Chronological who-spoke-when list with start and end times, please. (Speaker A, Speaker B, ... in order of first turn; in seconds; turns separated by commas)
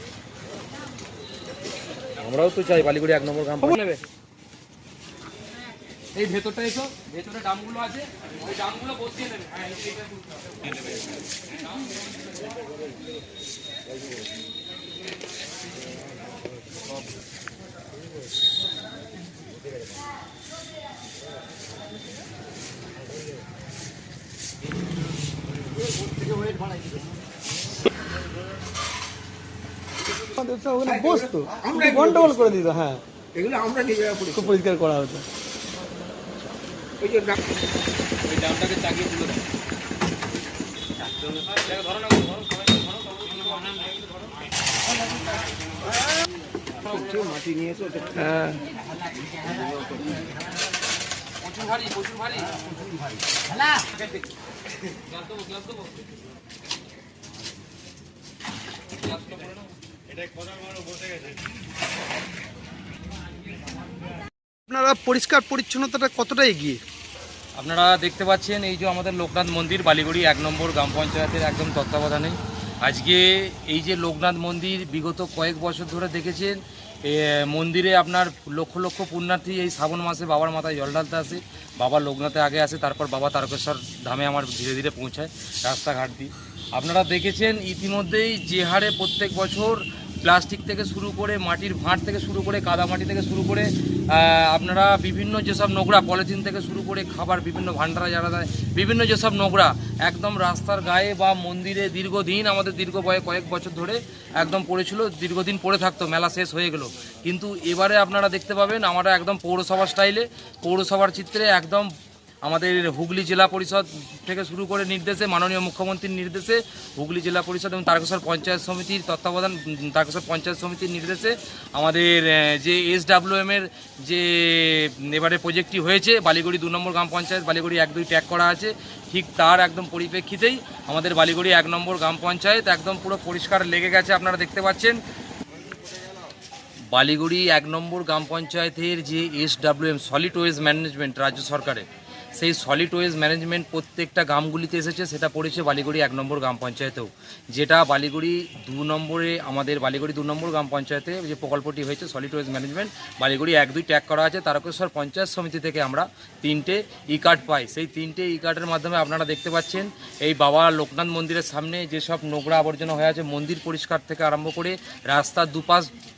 Speaker A: 2.2-4.0, Speaker A: 6.2-10.1, Speaker B: 30.4-33.0, Speaker C: 30.9-32.5, Speaker C: 33.3-34.5, Speaker B: 34.3-35.2, Speaker C: 37.0-37.4, Speaker A: 38.3-39.4, Speaker A: 41.5-43.5, Speaker C: 46.8-48.6, Speaker C: 49.5-50.0, Speaker A: 51.4-52.5, Speaker A: 55.1-55.9, Speaker A: 59.0-59.6, Speaker B: 64.7-66.8, Speaker A: 67.6-111.9, Speaker A: 112.4-135.0, Speaker A: 136.9-165.9